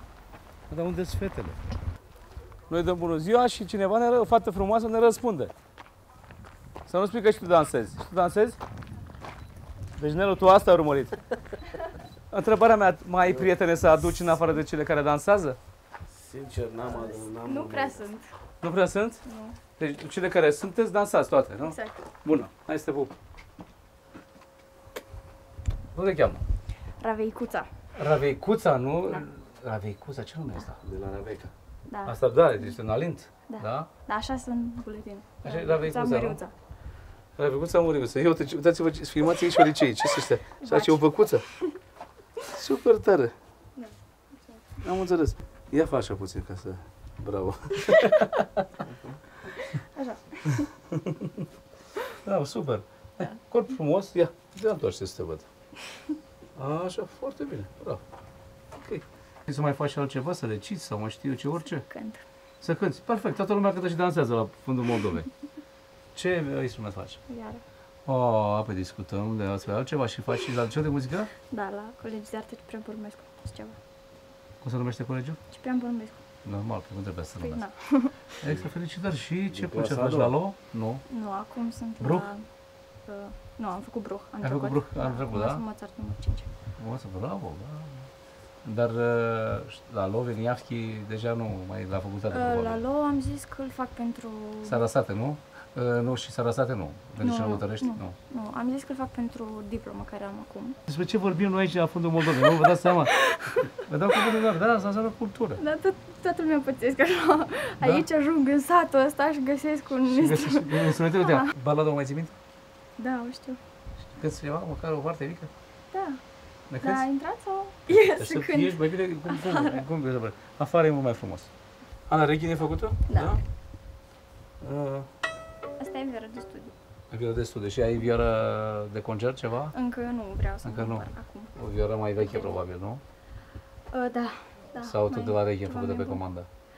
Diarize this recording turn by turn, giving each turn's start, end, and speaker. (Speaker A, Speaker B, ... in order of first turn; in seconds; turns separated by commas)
Speaker A: 0.7-1.6, Speaker A: 2.7-5.5, Speaker A: 6.9-8.6, Speaker A: 10.0-11.2, Speaker A: 12.3-15.6, Speaker B: 13.2-13.5, Speaker B: 16.1-18.0, Speaker C: 16.9-18.3, Speaker A: 18.6-19.2, Speaker C: 19.2-19.6, Speaker A: 19.8-23.1, Speaker C: 21.6-22.0, Speaker A: 25.9-26.4, Speaker C: 27.0-27.7, Speaker A: 28.0-31.5, Speaker C: 31.9-32.2, Speaker A: 32.0-33.9, Speaker C: 33.5-36.5, Speaker A: 35.4-36.4, Speaker A: 37.4-41.5, Speaker C: 40.6-41.8, Speaker A: 42.5-43.3, Speaker C: 43.8-44.6, Speaker A: 44.8-48.6, Speaker C: 49.5-50.7, Speaker A: 52.1-55.5, Speaker A: 56.6-58.0, Speaker A: 58.8-61.9, Speaker C: 61.7-62.2, Speaker A: 62.6-65.3, Speaker A: 66.1-67.2, Speaker C: 67.3-67.6, Speaker A: 68.1-71.3, Speaker C: 71.5-73.8, Speaker A: 74.6-75.4, Speaker C: 75.5-76.2, Speaker A: 76.4-77.7, Speaker C: 77.4-78.2, Speaker A: 78.4-81.0, Speaker B: 79.5-80.4, Speaker C: 81.1-86.5, Speaker A: 82.0-82.3, Speaker A: 84.4-85.6, Speaker A: 86.8-88.1, Speaker A: 88.6-92.8, Speaker C: 92.3-94.8, Speaker A: 94.6-98.2, Speaker C: 97.2-100.8, Speaker A: 100.9-105.6, Speaker C: 102.6-103.7, Speaker C: 105.6-111.5, Speaker A: 107.8-108.1, Speaker A: 110.0-112.4, Speaker C: 113.0-113.6, Speaker A: 114.0-115.5, Speaker C: 115.9-116.2, Speaker A: 116.7-117.0, Speaker C: 116.8-119.9, Speaker A: 117.9-121.5, Speaker A: 122.1-123.4, Speaker C: 123.1-123.4, Speaker A: 124.6-125.1, Speaker C: 125.8-126.7, Speaker A: 127.1-129.8, Speaker C: 129.7-131.6, Speaker A: 130.6-133.0, Speaker C: 132.1-132.6, Speaker C: 133.9-136.2, Speaker A: 134.8-136.5